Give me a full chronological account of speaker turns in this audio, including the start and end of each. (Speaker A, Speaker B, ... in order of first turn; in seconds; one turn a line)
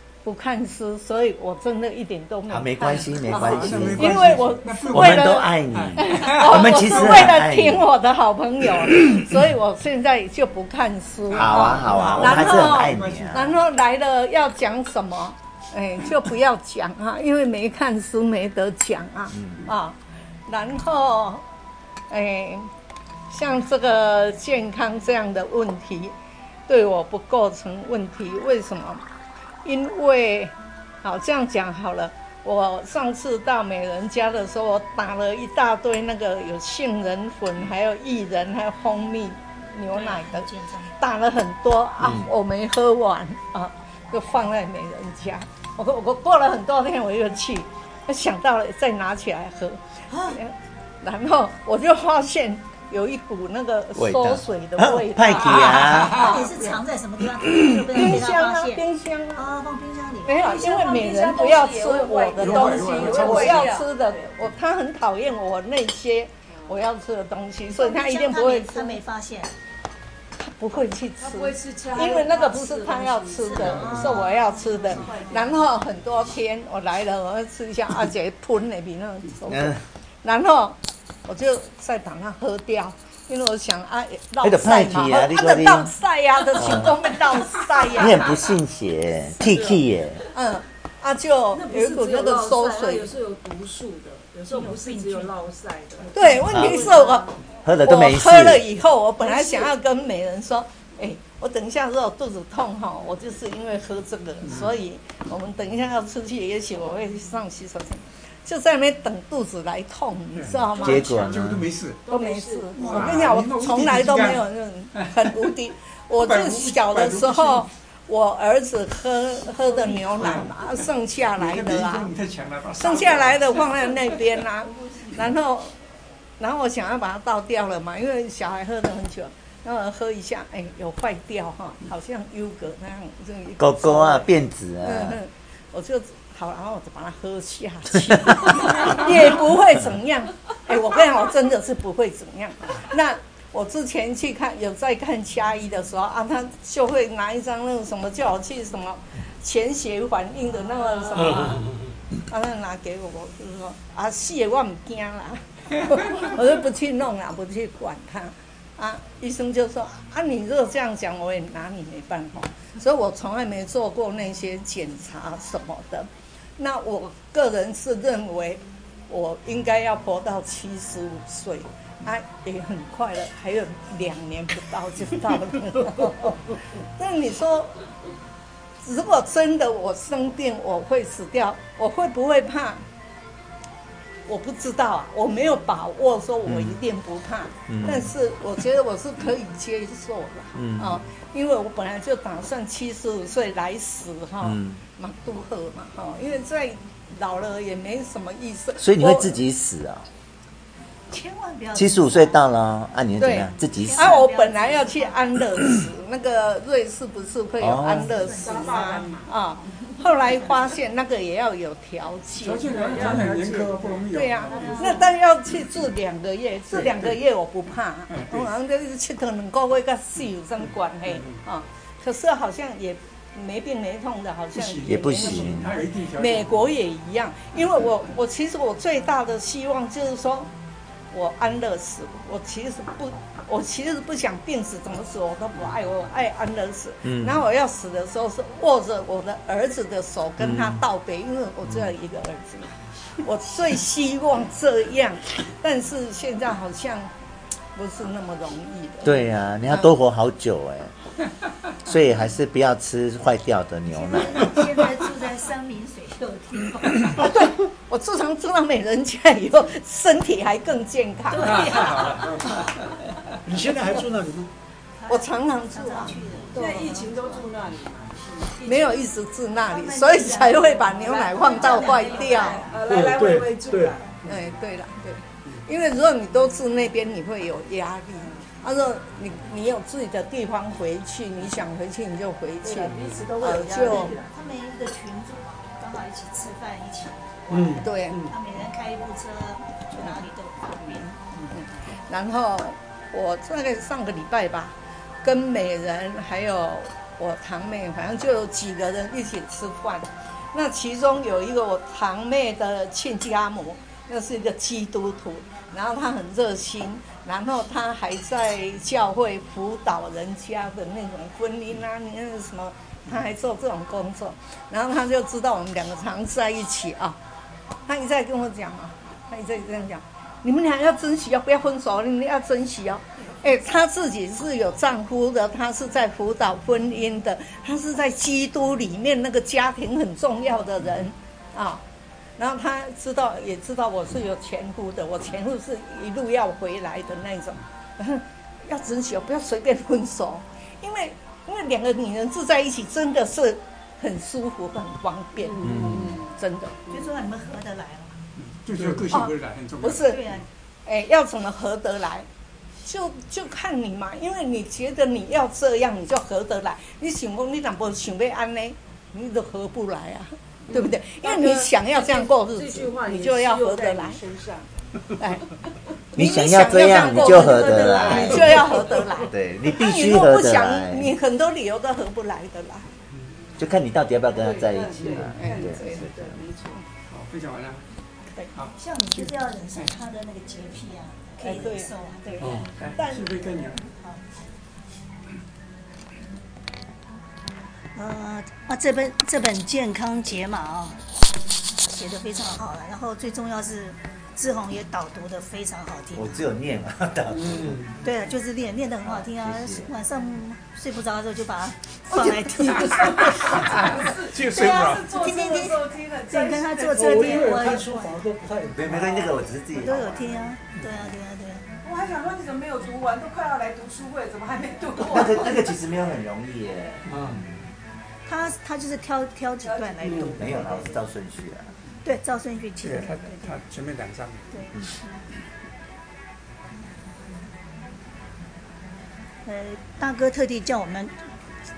Speaker A: 0.2-21.4
Speaker B: 2.5-7.9
Speaker C: 3.3-7.3
Speaker C: 11.3-13.6
Speaker B: 11.3-13.6
Speaker B: 19.3-19.7
Speaker A: 22.1-22.7
Speaker A: 23.3-26.1
Speaker A: 26.7-29.0
Speaker A: 29.6-56.8
Speaker D: 39.9-40.9
Speaker B: 42.0-42.3
Speaker D: 50.1-50.4
Speaker B: 54.0-56.5
Speaker D: 55.8-58.8
Speaker A: 57.9-59.5
Speaker D: 59.4-60.4
Speaker A: 60.2-69.0
Speaker E: 60.4-64.4
Speaker C: 62.4-63.7
Speaker E: 66.5-66.8
Speaker D: 67.8-69.5
Speaker A: 70.4-88.4
Speaker E: 71.2-75.7
Speaker D: 73.5-75.6
Speaker C: 73.7-74.0
Speaker B: 79.5-79.8
Speaker B: 84.4-85.9
Speaker B: 86.5-87.0
Speaker B: 87.9-90.2
Speaker E: 89.5-89.8
Speaker A: 90.3-93.1
Speaker E: 91.5-97.3
Speaker D: 94.5-95.3
Speaker A: 96.1-97.3
Speaker B: 96.5-96.9
Speaker D: 96.5-97.2
Speaker B: 97.6-98.7
Speaker A: 97.8-111.4
Speaker E: 99.2-99.7
Speaker C: 110.4-110.8
Speaker E: 110.6-111.4
Speaker B: 110.8-111.7
Speaker C: 111.3-112.0
Speaker E: 112.0-113.5
Speaker A: 112.1-122.1
Speaker C: 112.8-115.5
Speaker C: 116.2-117.7
Speaker C: 119.7-124.4
Speaker A: 122.8-125.8
Speaker A: 126.4-134.3
Speaker B: 133.6-135.2
Speaker A: 134.8-151.7
Speaker E: 151.2-151.5
Speaker A: 152.3-177.8
Speaker A: 178.8-182.8
Speaker A: 184.3-199.3
Speaker B: 186.5-186.8
Speaker B: 187.7-188.1
Speaker B: 190.6-191.0
Speaker B: 194.4-194.8
Speaker B: 198.8-200.1
Speaker D: 201.1-202.4
Speaker B: 201.7-204.2
Speaker A: 203.2-213.1
Speaker D: 203.5-205.3
Speaker B: 207.6-208.2
Speaker D: 208.1-209.2
Speaker E: 208.3-209.3
Speaker C: 212.4-215.0
Speaker E: 212.4-215.1
Speaker A: 214.1-230.5
Speaker C: 218.1-218.5
Speaker C: 221.1-221.4
Speaker C: 224.5-226.7
Speaker B: 224.8-225.8
Speaker A: 231.1-247.1
Speaker B: 237.1-237.5
Speaker B: 240.4-240.8
Speaker A: 247.8-249.2
Speaker B: 249.0-250.9
Speaker B: 251.8-254.8
Speaker D: 253.9-257.2
Speaker A: 257.0-262.0
Speaker D: 261.3-262.7
Speaker C: 261.4-262.8
Speaker F: 263.4-264.5
Speaker D: 263.7-264.1
Speaker D: 265.0-267.5
Speaker A: 265.1-266.9
Speaker E: 266.5-269.1
Speaker A: 268.6-272.7
Speaker E: 269.6-274.1
Speaker D: 269.7-272.8
Speaker F: 272.9-274.0
Speaker A: 274.2-284.2
Speaker D: 282.6-291.3
Speaker C: 282.8-283.3
Speaker A: 287.7-288.3
Speaker A: 291.5-317.2
Speaker A: 317.9-331.8
Speaker A: 332.4-346.9
Speaker E: 345.4-346.4
Speaker B: 345.7-346.1
Speaker D: 346.9-348.2
Speaker C: 348.4-350.1
Speaker A: 349.1-350.4
Speaker D: 350.0-350.5
Speaker A: 350.9-352.3
Speaker A: 352.8-364.2
Speaker E: 360.7-364.7
Speaker A: 365.2-365.4
Speaker B: 366.2-371.1
Speaker A: 366.2-372.9
Speaker E: 366.2-369.2
Speaker B: 373.6-376.4
Speaker E: 374.3-376.8
Speaker A: 375.3-376.0
Speaker C: 377.1-377.8
Speaker D: 378.4-382.7
Speaker E: 381.4-382.9
Speaker A: 381.5-381.8
Speaker C: 382.6-383.9
Speaker A: 383.0-383.4
Speaker D: 387.9-391.0
Speaker D: 391.8-396.4
Speaker B: 396.1-397.9
Speaker F: 397.3-398.0
Speaker D: 398.0-408.2
Speaker B: 399.2-399.9
Speaker E: 402.1-407.6
Speaker C: 402.8-405.1
Speaker F: 406.9-409.6
Speaker B: 408.7-410.3
Speaker D: 409.8-411.7
Speaker E: 411.8-415.8
Speaker B: 415.0-417.7
Speaker F: 417.1-417.4
Speaker D: 418.3-420.8
Speaker E: 419.6-421.0
Speaker F: 420.1-420.3
Speaker B: 420.4-421.7
Speaker D: 422.0-423.6
Speaker C: 422.8-424.6
Speaker D: 424.5-425.2
Speaker D: 429.4-431.1